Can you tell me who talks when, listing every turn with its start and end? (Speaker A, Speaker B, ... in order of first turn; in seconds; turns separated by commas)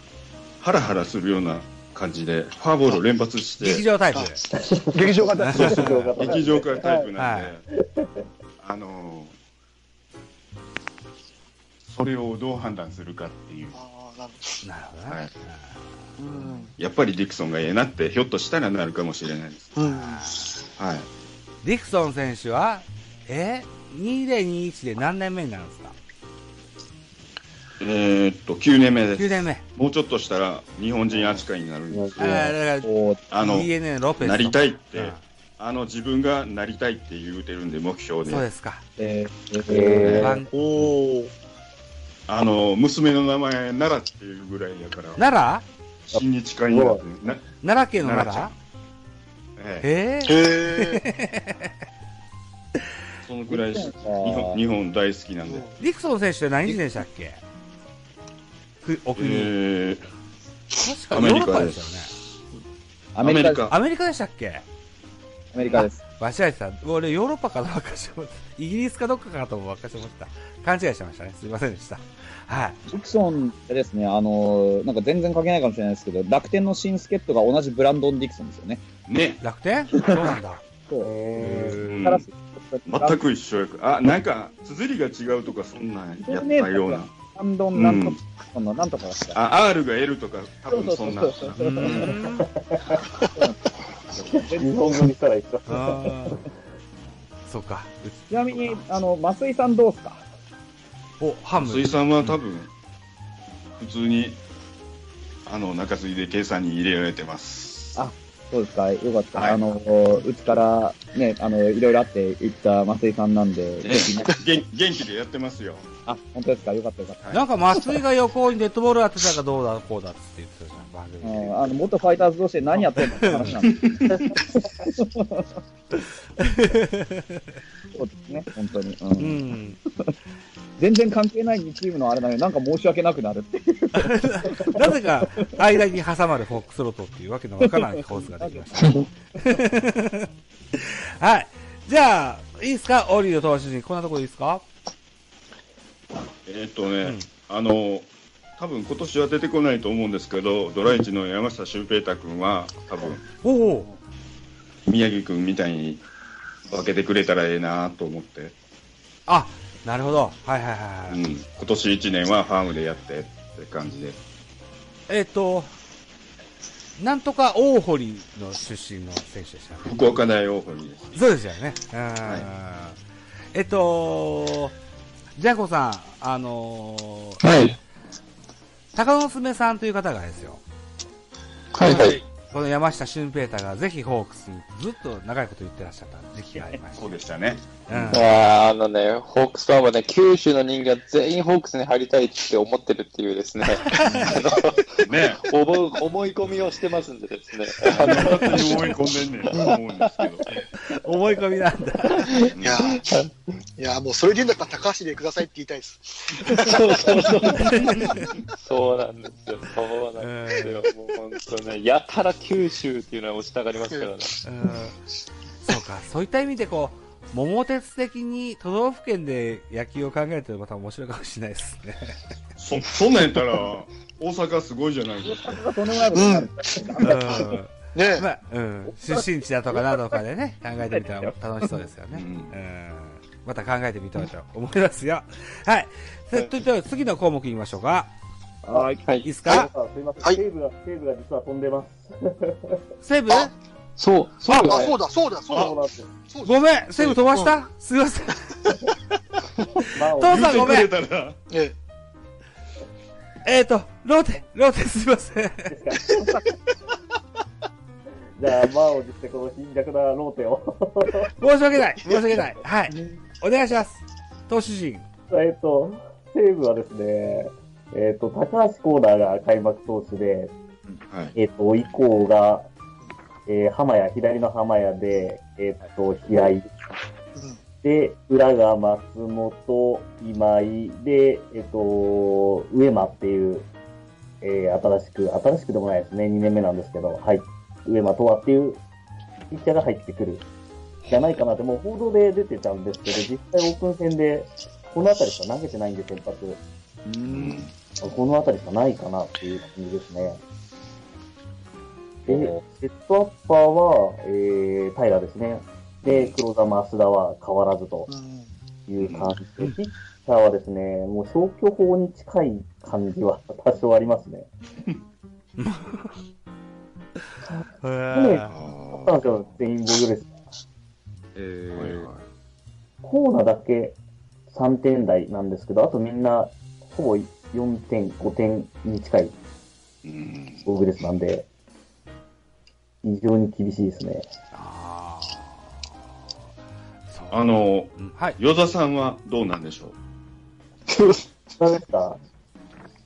Speaker A: 0.6-3.9, Speaker B: 3.6-4.4, Speaker C: 4.6-7.1, Speaker D: 4.9-7.0, Speaker B: 5.4-6.1, Speaker A: 6.2-7.7, Speaker B: 7.2-7.5, Speaker C: 7.8-8.2, Speaker A: 8.6-9.4, Speaker A: 11.8-13.8, Speaker E: 13.7-14.6, Speaker B: 14.6-16.5, Speaker E: 16.2-16.7, Speaker A: 16.8-19.8, Speaker E: 19.8-20.6, Speaker B: 19.8-20.5, Speaker A: 20.8-21.1, Speaker B: 21.6-26.0, Speaker A: 27.8-32.3, Speaker B: 29.1-29.6, Speaker C: 31.9-32.6, Speaker B: 32.2-35.2, Speaker D: 32.8-33.2, Speaker A: 33.3-38.5, Speaker B: 38.2-38.8, Speaker D: 39.0-41.3, Speaker C: 39.7-40.4, Speaker B: 40.0-40.9, Speaker A: 42.3-45.2, Speaker B: 45.2-45.7, Speaker A: 46.1-48.6, Speaker C: 46.1-47.0, Speaker B: 47.6-48.5, Speaker A: 49.6-49.9, Speaker B: 49.8-51.7, Speaker E: 50.3-51.0, Speaker A: 53.2-55.7, Speaker D: 53.5-54.6, Speaker E: 55.5-55.7, Speaker B: 55.8-57.4, Speaker B: 58.8-59.5, Speaker A: 59.2-60.1, Speaker B: 60.8-62.1, Speaker A: 61.1-61.8, Speaker D: 63.1-63.7, Speaker A: 63.2-63.8, Speaker B: 63.7-64.7, Speaker D: 65.5-66.0, Speaker B: 65.7-72.8, Speaker D: 72.9-78.8, Speaker A: 79.1-79.4, Speaker B: 79.4-80.6, Speaker C: 81.0-81.8, Speaker B: 81.4-82.0, Speaker A: 81.8-82.3, Speaker D: 82.0-83.2, Speaker A: 82.9-87.1, Speaker D: 86.2-89.4, Speaker A: 87.7-88.2, Speaker A: 89.3-92.2, Speaker D: 90.7-92.1, Speaker B: 91.6-92.5, Speaker C: 92.4-93.0, Speaker C: 94.3-96.4, Speaker D: 94.4-94.8, Speaker B: 95.7-96.5, Speaker B: 97.5-98.8, Speaker D: 98.3-100.3, Speaker B: 101.2-102.4, Speaker A: 101.6-102.7, Speaker A: 103.8-104.4, Speaker A: 105.5-108.0, Speaker D: 108.0-114.3, Speaker A: 109.3-109.6, Speaker A: 113.8-115.9, Speaker D: 116.1-117.2, Speaker A: 117.2-117.5, Speaker B: 117.3-121.8, Speaker D: 121.2-124.2, Speaker B: 122.7-123.7, Speaker A: 123.7-124.3, Speaker D: 124.8-125.6, Speaker B: 126.4-127.6, Speaker D: 127.9-130.1, Speaker B: 129.2-129.8, Speaker D: 130.8-135.3, Speaker B: 133.9-144.7, Speaker D: 137.6-139.0, Speaker A: 146.4-153.2, Speaker B: 147.0-147.3, Speaker B: 153.4-153.9, Speaker A: 154.9-156.0, Speaker A: 156.7-158.6, Speaker B: 159.3-161.2, Speaker A: 161.1-164.2, Speaker B: 165.1-165.7, Speaker B: 167.0-170.0, Speaker A: 169.8-171.2, Speaker B: 171.1-173.0, Speaker B: 173.5-174.8, Speaker B: 175.4-177.4, Speaker F: 177.4-177.8, Speaker B: 178.9-180.6, Speaker F: 181.7-182.2, Speaker B: 181.8-187.1, Speaker A: 186.9-188.1, Speaker B: 187.9-188.2, Speaker F: 188.1-199.7, Speaker B: 193.8-194.3, Speaker A: 195.0-195.4, Speaker A: 197.8-200.4, Speaker B: 198.1-198.5, Speaker B: 200.8-202.4, Speaker F: 202.2-203.3, Speaker A: 202.5-202.8, Speaker E: 202.6-203.1, Speaker E: 203.8-207.7, Speaker F: 206.6-214.4, Speaker B: 207.5-208.3, Speaker B: 210.2-210.8, Speaker B: 214.4-215.0, Speaker B: 215.6-222.2, Speaker A: 222.6-225.7, Speaker D: 225.2-227.5, Speaker E: 226.1-228.3, Speaker B: 227.0-238.1, Speaker D: 229.7-230.2, Speaker D: 230.9-231.7, Speaker A: 232.1-232.5, Speaker D: 238.6-239.0, Speaker F: 238.7-239.6, Speaker B: 239.2-239.7, Speaker C: 239.4-242.8, Speaker B: 243.0-243.5, Speaker F: 244.0-245.0, Speaker B: 244.5-244.9, Speaker E: 244.7-246.6, Speaker C: 245.5-246.1, Speaker B: 246.4-248.6, Speaker C: 249.9-250.7, Speaker B: 250.2-250.9, Speaker A: 250.3-251.4, Speaker E: 251.5-251.8, Speaker B: 253.4-255.7, Speaker C: 255.7-256.4, Speaker C: 258.4-261.3, Speaker B: 261.4-265.1, Speaker C: 265.3-270.5, Speaker A: 271.1-271.4, Speaker C: 271.4-272.7, Speaker C: 273.5-276.7, Speaker E: 277.4-277.6, Speaker C: 277.8-283.7, Speaker C: 284.4-288.8, Speaker C: 289.5-290.5, Speaker C: 291.1-296.6, Speaker D: 297.1-297.6, Speaker A: 297.2-297.7, Speaker C: 298.0-300.4, Speaker A: 302.3-302.6, Speaker C: 302.3-308.1, Speaker A: 306.0-306.4, Speaker E: 308.1-308.5, Speaker C: 308.9-314.5, Speaker A: 309.0-309.4, Speaker B: 315.6-316.2, Speaker C: 317.5-320.4, Speaker B: 317.8-318.6, Speaker A: 318.5-319.5, Speaker A: 321.4-322.2, Speaker C: 323.0-329.4, Speaker A: 330.0-330.7, Speaker C: 330.6-331.5, Speaker C: 333.0-334.3, Speaker B: 334.5-335.9, Speaker B: 337.1-338.4, Speaker A: 337.3-340.0, Speaker C: 341.6-342.2